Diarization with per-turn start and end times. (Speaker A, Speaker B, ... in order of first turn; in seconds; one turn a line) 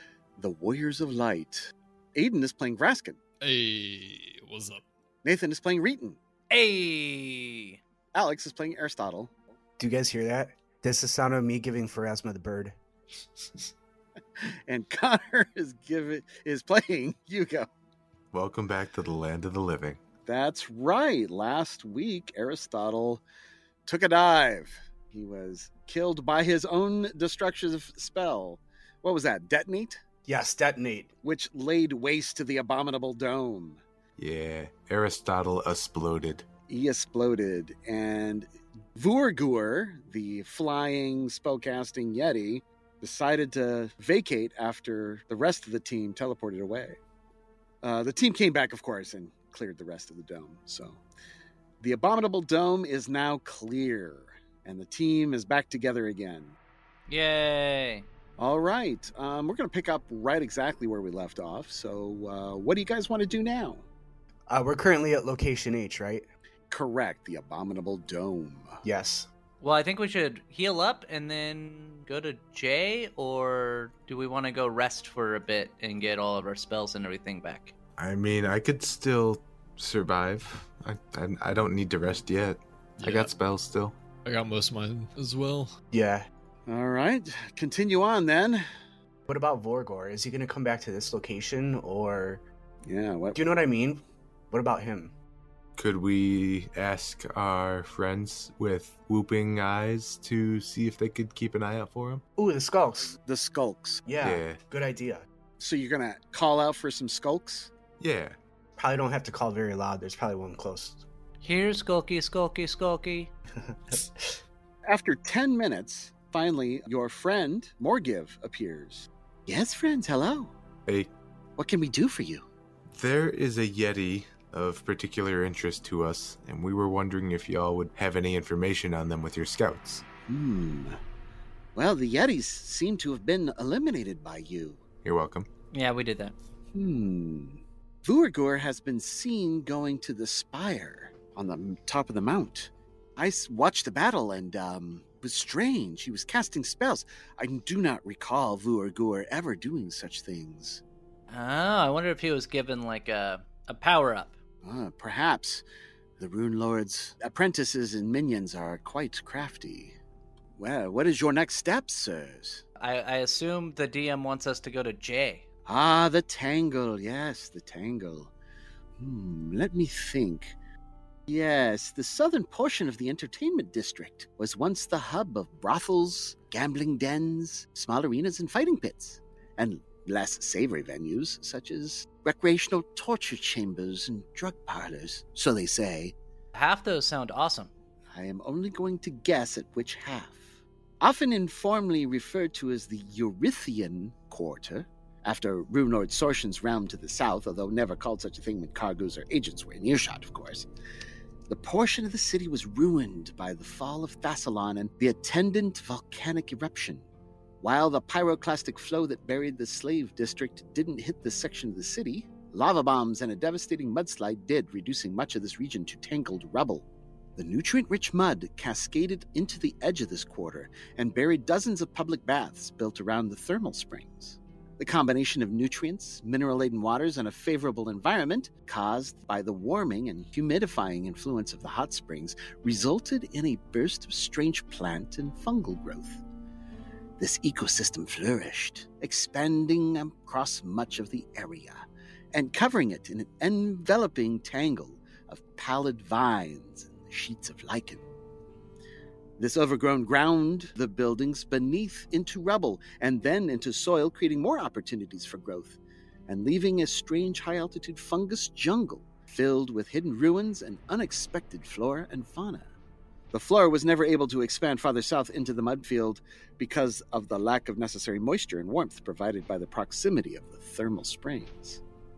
Speaker A: 0.4-3.2
Speaker B: 3.4-4.8
Speaker A: 5.2-6.2
Speaker C: 6.5-7.8
Speaker A: 8.1-9.3
Speaker D: 9.8-12.8
Speaker A: 14.4-17.7
Speaker E: 18.3-20.0
Speaker A: 20.3-23.2
Speaker A: 23.9-30.0
Speaker D: 30.3-31.1
Speaker A: 31.2-33.8
Speaker E: 34.2-36.5
Speaker A: 36.7-47.0
Speaker A: 47.8-51.0
Speaker A: 51.8-56.6
Speaker C: 57.1-58.1
Speaker A: 58.4-63.9
Speaker D: 64.5-66.3
Speaker A: 66.7-68.8
Speaker D: 68.8-69.3
Speaker C: 69.6-77.7
Speaker E: 78.0-84.0
Speaker B: 83.0-83.3
Speaker B: 84.2-85.7
Speaker D: 85.9-86.3
Speaker A: 86.7-88.7
Speaker D: 89.3-92.4
Speaker A: 92.9-93.4
Speaker D: 93.3-95.1
Speaker E: 95.8-102.2
Speaker D: 102.4-103.1
Speaker A: 103.2-104.1
Speaker D: 104.1-105.3
Speaker E: 104.2-104.6
Speaker A: 105.6-107.7
Speaker E: 108.0-108.4
Speaker D: 108.8-111.0
Speaker C: 111.4-113.3
Speaker D: 113.7-114.4
Speaker A: 114.9-120.5
Speaker A: 121.6-122.5
Speaker E: 122.9-130.1
Speaker A: 130.3-131.0
Speaker A: 131.8-134.8
Speaker E: 135.0-135.5
Speaker C: 135.7-136.3
Speaker A: 136.7-150.8
Speaker C: 151.3-154.3
Speaker A: 154.6-155.6
Speaker A: 156.2-159.9
Speaker A: 160.6-162.6
Speaker C: 162.8-165.4
Speaker A: 165.7-168.3
Speaker A: 169.0-170.6
Speaker A: 171.3-186.2
Speaker C: 186.5-187.7
Speaker A: 188.1-190.4
Speaker A: 191.0-200.7
Speaker A: 201.5-207.1
Speaker A: 207.6-236.2
Speaker A: 237.2-248.0
Speaker A: 249.4-262.7
Speaker A: 263.3-271.8